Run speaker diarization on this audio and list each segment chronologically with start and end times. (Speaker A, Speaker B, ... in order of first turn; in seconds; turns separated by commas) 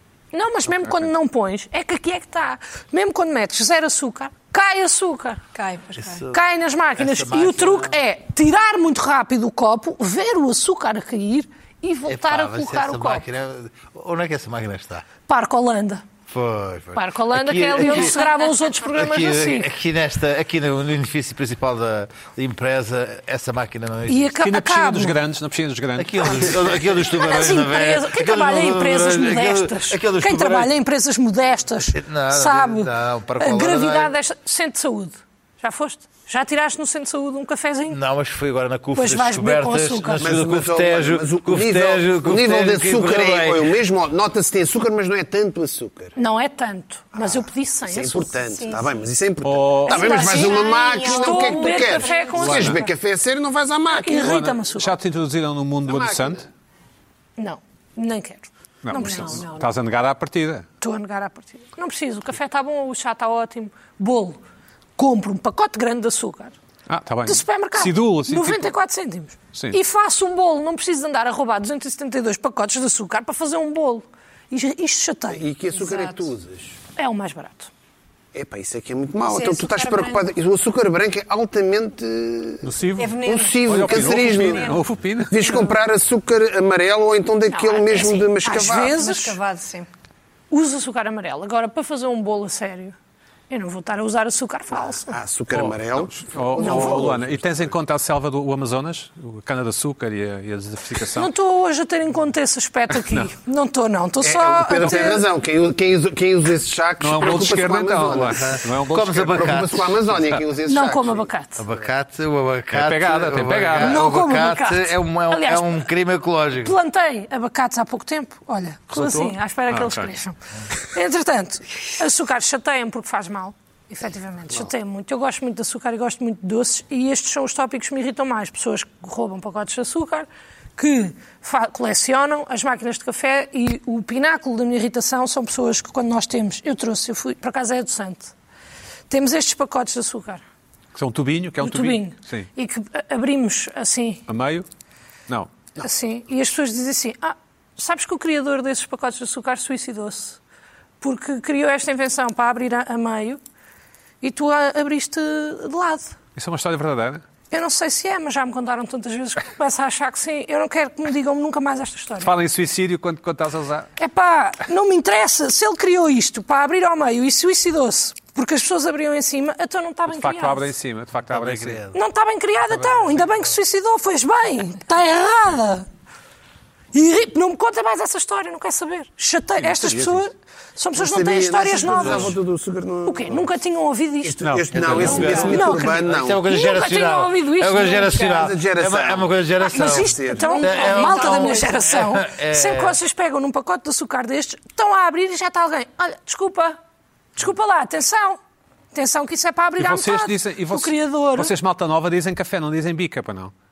Speaker A: 0.3-5.4, Speaker B: 0.8-1.1, Speaker C: 5.5-6.2, Speaker D: 6.0-6.4, Speaker A: 6.3-13.2, Speaker D: 7.0-8.0, Speaker D: 12.1-15.1, Speaker A: 15.2-16.0, Speaker D: 16.3-18.2, Speaker A: 16.9-19.7, Speaker D: 18.8-24.3, Speaker A: 24.1-25.2, Speaker B: 24.4-26.7, Speaker D: 26.0-30.7, Speaker A: 27.1-38.0, Speaker D: 31.9-34.1, Speaker D: 37.9-43.8, Speaker A: 38.9-40.2, Speaker E: 40.2-46.1, Speaker A: 46.1-48.3, Speaker E: 47.1-54.4, Speaker C: 48.5-49.0, Speaker B: 49.4-50.1, Speaker C: 49.9-52.9, Speaker A: 50.0-52.8, Speaker B: 52.4-52.8, Speaker A: 53.9-54.9, Speaker B: 54.2-56.4, Speaker E: 55.9-56.4, Speaker A: 57.4-59.4, Speaker B: 58.8-60.6, Speaker C: 58.9-59.7, Speaker A: 60.8-64.4, Speaker A: 65.0-66.5, Speaker B: 66.9-68.7, Speaker A: 67.2-75.4, Speaker E: 75.3-76.8, Speaker C: 75.7-76.3, Speaker A: 77.0-77.7, Speaker E: 78.3-82.7, Speaker C: 79.3-80.3, Speaker B: 82.6-85.6, Speaker C: 83.0-84.8, Speaker E: 83.2-84.8, Speaker E: 85.3-89.0, Speaker A: 87.5-89.4, Speaker C: 88.5-89.9, Speaker A: 90.5-92.9, Speaker A: 93.5-95.2, Speaker E: 94.9-97.7, Speaker B: 95.5-101.3, Speaker A: 96.6-97.1, Speaker A: 101.1-105.2, Speaker B: 102.9-103.3, Speaker E: 104.2-111.3, Speaker B: 107.0-109.5, Speaker D: 108.3-110.2, Speaker A: 110.7-111.6, Speaker D: 111.6-116.8, Speaker B: 112.7-114.0, Speaker A: 113.8-115.8, Speaker A: 116.6-120.3, Speaker B: 118.9-120.1, Speaker A: 120.9-138.3, Speaker A: 139.1-140.4, Speaker B: 140.9-142.5, Speaker A: 141.6-144.2, Speaker B: 144.3-144.7, Speaker A: 145.8-150.4, Speaker A: 151.0-153.4, Speaker A: 154.2-156.2, Speaker B: 156.3-157.2, Speaker A: 157.5-162.3, Speaker B: 162.2-163.9, Speaker A: 164.0-170.7, Speaker B: 170.1-171.8, Speaker D: 171.3-172.0, Speaker A: 171.9-175.9, Speaker A: 176.9-182.4, Speaker B: 179.6-180.3, Speaker E: 180.9-183.5, Speaker D: 182.0-182.3, Speaker A: 183.0-188.4, Speaker E: 184.2-186.5, Speaker B: 184.4-185.4, Speaker D: 184.7-193.0, Speaker C: 185.2-185.5, Speaker E: 188.3-190.6, Speaker A: 189.6-196.8, Speaker C: 190.4-191.8, Speaker A: 197.3-198.4, Speaker A: 198.9-201.5, Speaker B: 199.8-203.5